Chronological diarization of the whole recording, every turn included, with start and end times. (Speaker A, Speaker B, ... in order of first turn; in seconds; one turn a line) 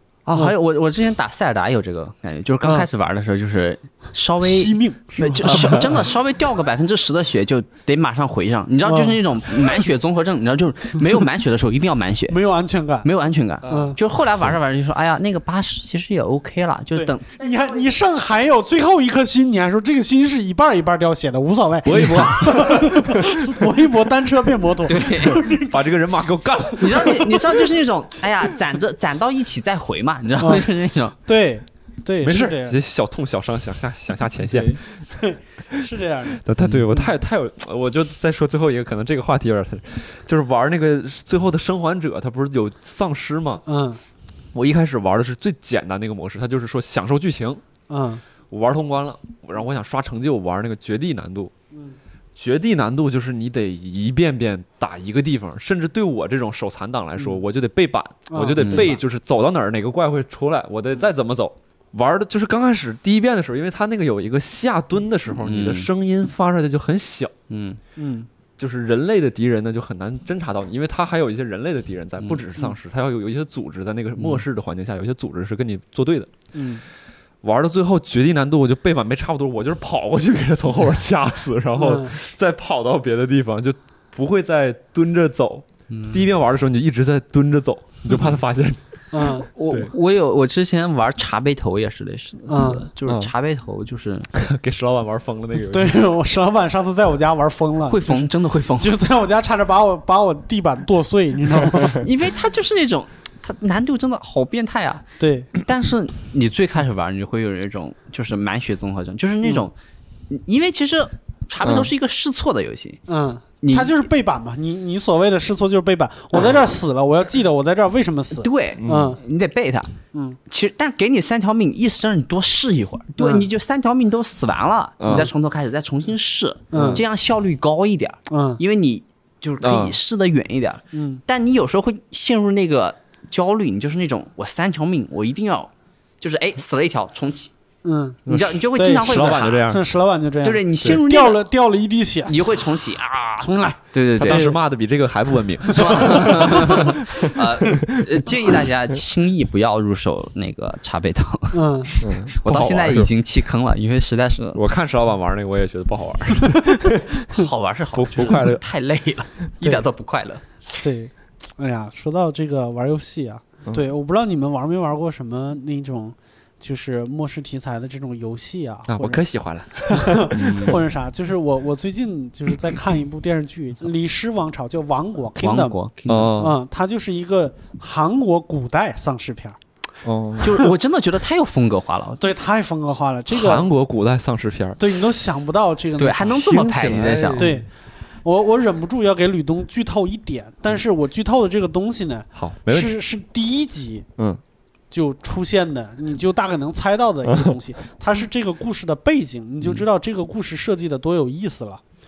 Speaker A: 0.2-12.4
Speaker B: 4.4-5.9
Speaker B: 8.8-9.2
Speaker B: 12.3-13.1
Speaker A: 13.0-17.6
Speaker B: 13.7-13.9
Speaker B: 16.9-25.8
Speaker C: 21.8-23.6
Speaker A: 24.8-25.4
Speaker C: 25.1-27.7
Speaker A: 26.7-31.2
Speaker B: 30.4-30.7
Speaker B: 31.2-32.8
Speaker C: 32.2-34.8
Speaker A: 34.5-34.8
Speaker B: 35.1-36.4
Speaker C: 36.4-43.6
Speaker A: 36.6-36.9
Speaker B: 43.6-44.0
Speaker C: 44.5-47.6
Speaker B: 47.9-48.2
Speaker C: 48.5-51.5
Speaker C: 52.4-67.3
Speaker B: 58.3-59.0
Speaker A: 58.6-59.0
Speaker A: 65.3-65.9
Speaker A: 67.5-67.8
Speaker B: 68.0-68.3
Speaker C: 68.6-76.3
Speaker A: 72.2-72.5
Speaker A: 74.2-74.4
Speaker B: 76.5-76.8
Speaker C: 77.4-88.8
Speaker B: 81.8-82.1
Speaker A: 85.9-86.3
Speaker B: 89.1-89.5
Speaker C: 89.4-89.9
Speaker A: 89.5-94.3
Speaker B: 92.5-92.8
Speaker C: 93.0-93.3
Speaker C: 94.3-96.0
Speaker B: 95.7-102.1
Speaker A: 97.9-99.0
Speaker A: 101.8-109.7
Speaker B: 105.2-105.5
Speaker A: 110.3-113.0
Speaker C: 111.6-111.9
Speaker B: 113.1-119.2
Speaker A: 113.6-114.0
Speaker A: 118.3-119.9
Speaker C: 118.8-119.2
Speaker B: 120.1-120.4
Speaker A: 120.5-137.5
Speaker B: 123.2-123.5
Speaker C: 125.0-125.3
Speaker B: 126.7-127.0
Speaker C: 126.7-127.0
Speaker B: 128.3-128.6
Speaker C: 129.6-130.0
Speaker B: 130.9-131.2
Speaker B: 137.8-138.2
Speaker A: 138.3-139.7
Speaker C: 138.3-139.8
Speaker B: 138.7-142.6
Speaker A: 140.4-141.4
Speaker A: 142.2-144.5
Speaker B: 143.4-144.6
Speaker C: 144.2-147.4
Speaker B: 145.7-146.2
Speaker A: 145.7-154.6
Speaker B: 151.5-151.9
Speaker C: 152.0-153.1
Speaker C: 154.5-157.2
Speaker A: 157.3-160.4
Speaker C: 157.9-158.6
Speaker B: 160.8-169.2
Speaker C: 168.9-170.7
Speaker B: 169.9-175.7
Speaker A: 170.3-170.8
Speaker A: 175.4-176.4
Speaker C: 176.1-176.6
Speaker B: 176.4-179.6
Speaker C: 180.0-180.7
Speaker A: 180.4-182.2
Speaker B: 182.2-183.7
Speaker C: 183.3-184.9
Speaker B: 184.8-186.4
Speaker A: 186.0-187.5
Speaker C: 186.2-187.5
Speaker B: 187.3-187.7
Speaker B: 188.2-194.1
Speaker C: 192.3-193.0
Speaker B: 194.9-201.8
Speaker C: 197.3-197.5